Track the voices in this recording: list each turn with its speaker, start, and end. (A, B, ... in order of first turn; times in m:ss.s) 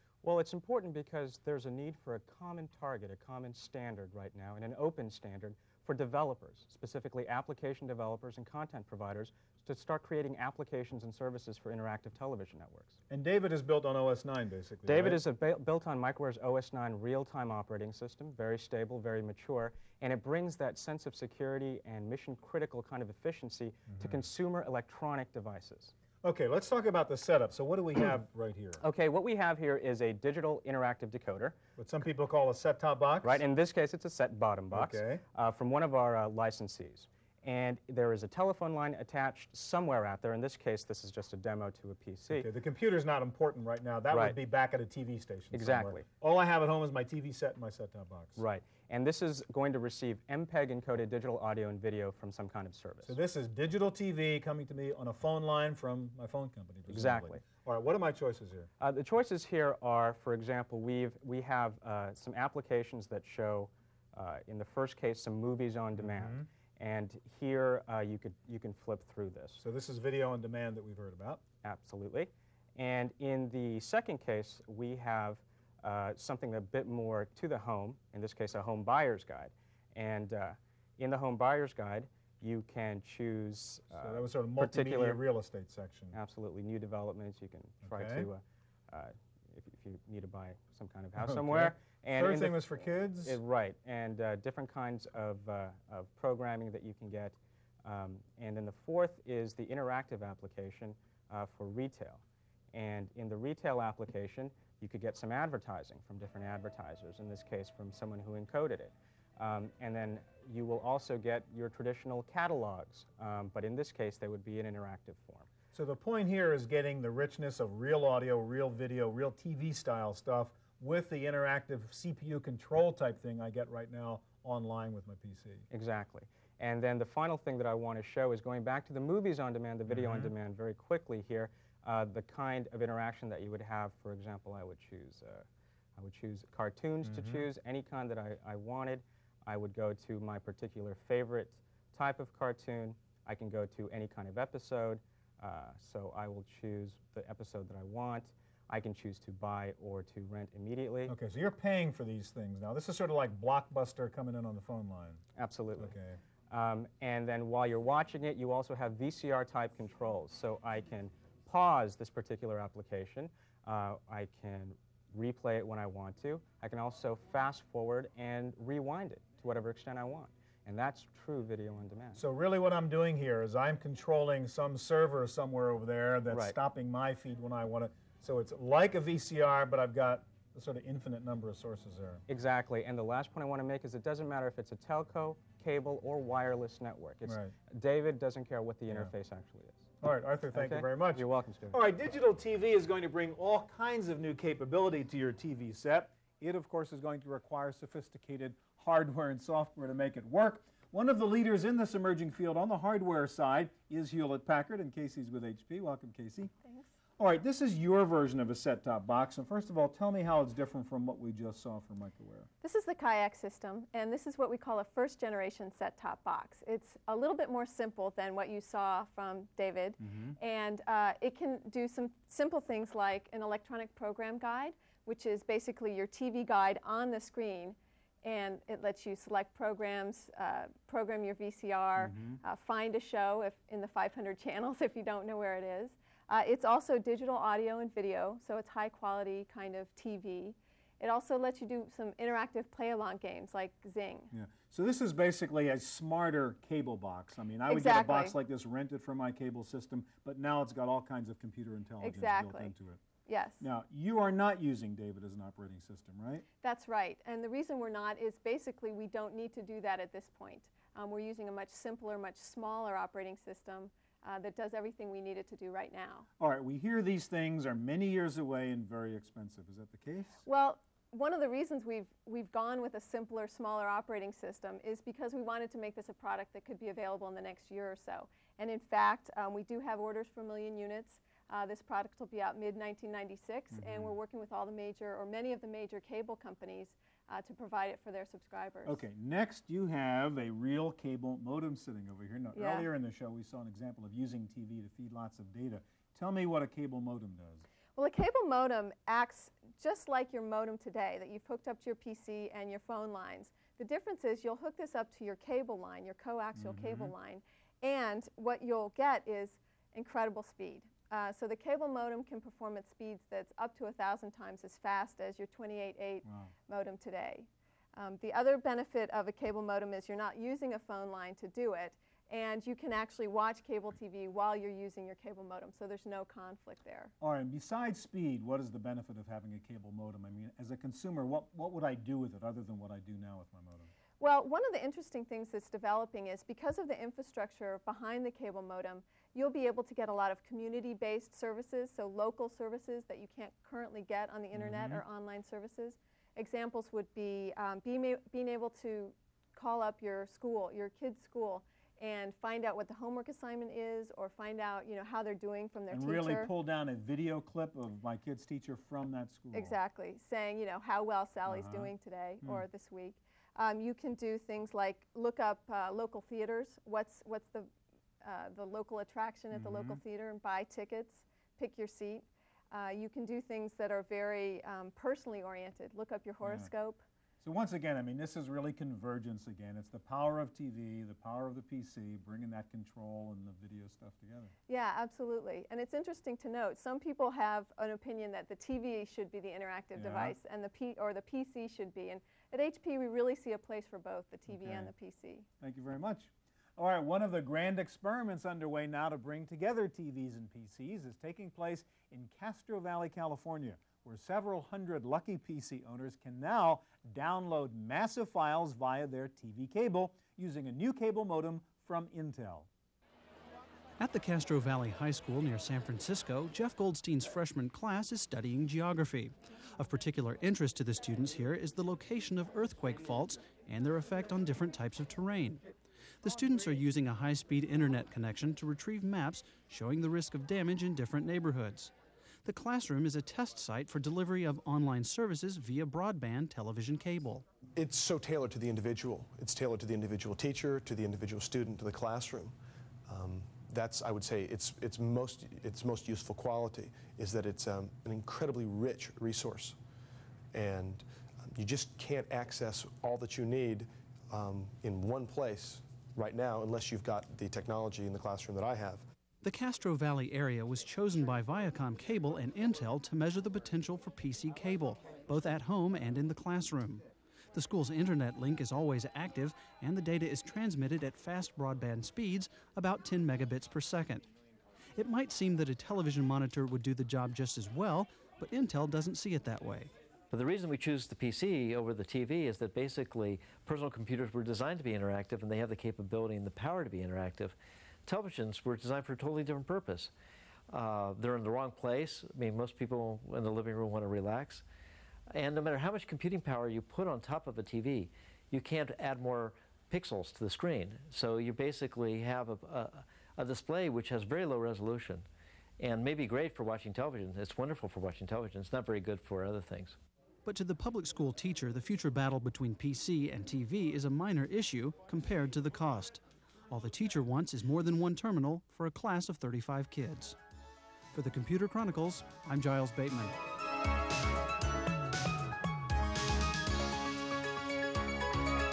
0:00.2-0:13.0 A
0:13.1-0:15.2 B
0:14.8-0:25.9 A
0:23.9-0:24.2 B
0:26.2-0:28.8 B
0:28.8-0:31.6 A
0:31.8-0:33.4 B
0:33.2-0:42.5 A
0:34.7-0:35.2 B
0:42.3-0:48.4 B
0:44.1-0:44.4 A
0:45.5-0:46.1 A
0:48.4-0:53.2 A
0:53.0-0:58.7 B
0:56.9-0:57.4 A
0:58.8-1:09.6 A
1:06.0-1:06.5 B
1:09.6-1:11.4 B
1:11.6-1:25.2 A
1:23.9-1:26.2 B
1:26.1-1:42.2 A
1:27.8-1:28.3 B
1:31.2-1:33.4 B
1:42.7-1:55.5 A
1:55.7-2:05.6 B
2:05.7-2:31.1 A
2:09.9-2:10.3 B
2:17.0-2:17.5 B
2:31.1-2:35.2 B
2:35.4-2:35.9 A
2:35.8-2:36.2 B
2:36.5-2:52.2 A
2:52.1-3:02.2 B
2:56.3-2:56.6 A
3:02.3-3:09.9 A
3:07.2-3:07.5 B
3:08.9-3:09.1 B
3:10.0-3:26.5 B
3:10.5-3:11.8 A
3:26.6-3:26.9 C
3:27.2-3:32.5 B
3:32.6-4:04.3 C
3:40.0-3:40.4 B
3:52.0-3:52.4 B
4:04.3-4:13.0 B
4:07.7-4:08.3 C
4:12.0-4:12.7 C
4:13.2-4:13.6 C
4:13.6-4:16.4 B
4:16.6-4:26.3 C
4:26.4-4:30.4 B
4:30.4-4:49.0 C
4:43.7-4:44.2 B
4:48.8-4:57.6 B
4:52.5-4:52.9 C
4:58.0-5:27.1 C
5:06.5-5:07.1 B
5:16.2-5:16.5 B
5:27.2-5:33.9 B
5:34.2-5:56.5 C
5:44.5-5:45.0 B
5:55.9-5:59.8 B
5:59.5-6:07.7 C
6:01.4-6:02.6 B
6:08.2-6:17.0 C
6:09.5-6:10.0 B
6:16.4-6:16.7 B
6:17.4-6:24.5 B
6:24.7-6:35.5 C
6:29.9-6:30.4 B
6:34.5-6:34.9 B
6:35.6-6:52.7 B
6:54.0-7:05.6 D
7:06.2-7:11.9 D
7:12.4-7:17.4 D
7:17.8-7:22.5 E
7:23.0-7:29.8 E
7:30.5-7:39.0 E
7:39.4-7:54.3 D
7:55.0-7:59.9 D
8:00.3-8:10.1 F
8:10.7-8:14.6 F
8:15.3-8:25.2 F
8:25.8-8:30.0 F
8:30.4-8:40.4 D
8:41.1-8:43.4 D